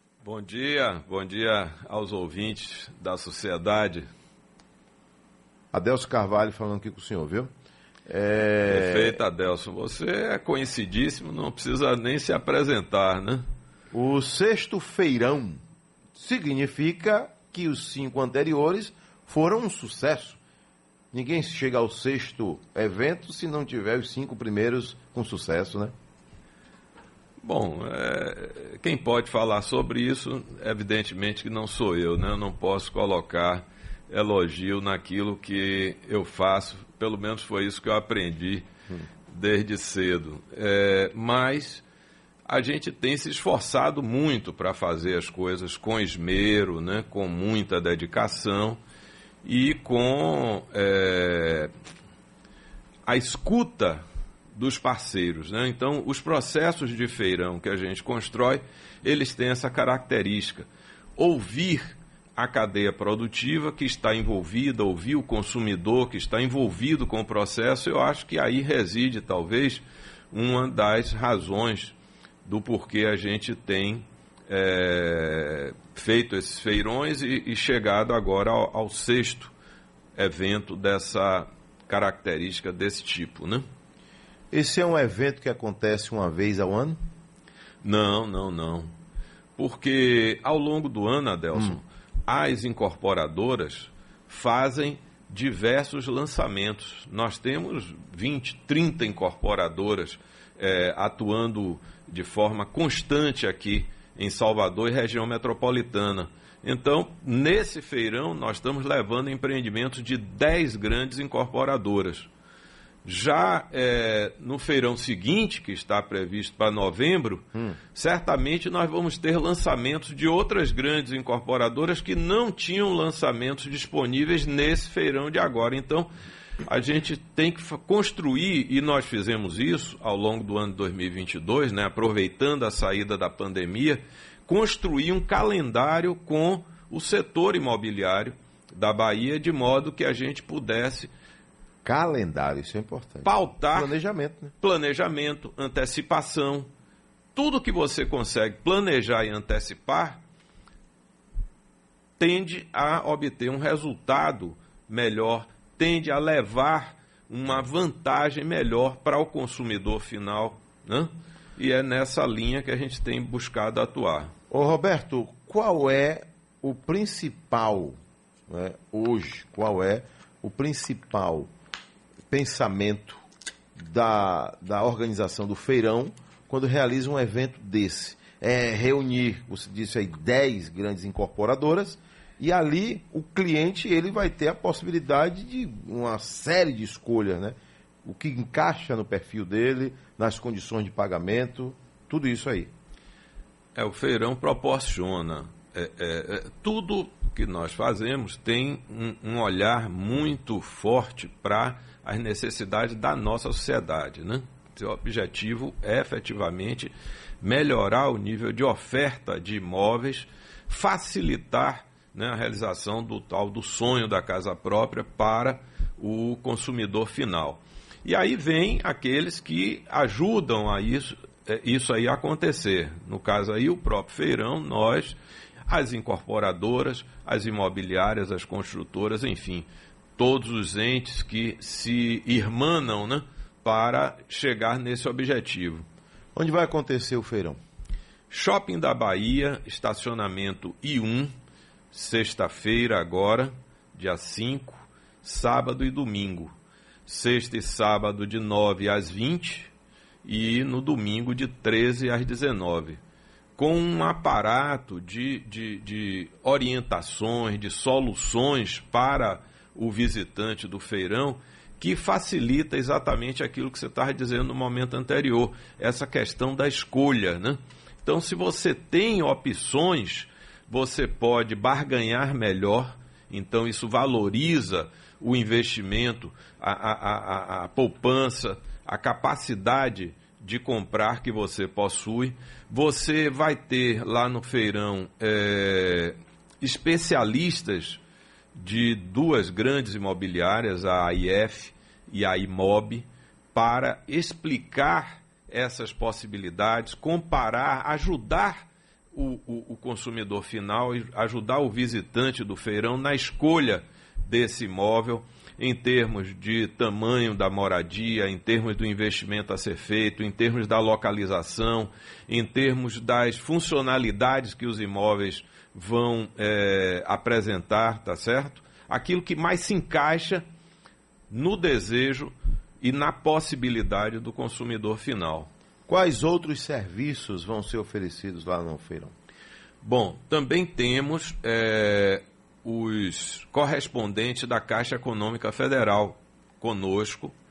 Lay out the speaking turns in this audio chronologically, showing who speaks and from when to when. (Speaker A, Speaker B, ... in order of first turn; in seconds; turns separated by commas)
Speaker A: 0.2-4.1, Speaker B: 5.7-7.5, Speaker B: 8.1-9.2, Speaker A: 8.6-13.4, Speaker B: 13.9-15.6, Speaker B: 16.1-20.4, Speaker B: 21.1-25.9, Speaker A: 27.4-38.7, Speaker A: 39.3-41.8, Speaker A: 42.5-48.8, Speaker A: 49.4-51.7, Speaker A: 53.0-54.0, Speaker A: 54.5-79.5, Speaker A: 80.2-83.6, Speaker B: 84.5-87.0, Speaker A: 87.8-88.9, Speaker A: 89.6-112.3, Speaker A: 113.0-126.1, Speaker A: 126.6-141.1, Speaker B: 141.8-144.5, Speaker A: 143.2-143.9, Speaker A: 144.6-146.7, Speaker A: 147.3-150.2, Speaker A: 152.2-164.3, Speaker B: 164.5-168.0, Speaker B: 168.5-171.5, Speaker B: 172.3-173.2, Speaker B: 173.8-192.7, Speaker A: 193.7-235.8, Speaker B: 236.3-237.6, Speaker A: 238.3-241.3, Speaker A: 241.9-246.5, Speaker A: 247.1-249.7, Speaker A: 250.2-253.0, Speaker A: 253.6-288.0, Speaker A: 288.6-320.4, Speaker A: 321.3-325.5, Speaker B: 325.9-329.1, Speaker A: 329.8-337.3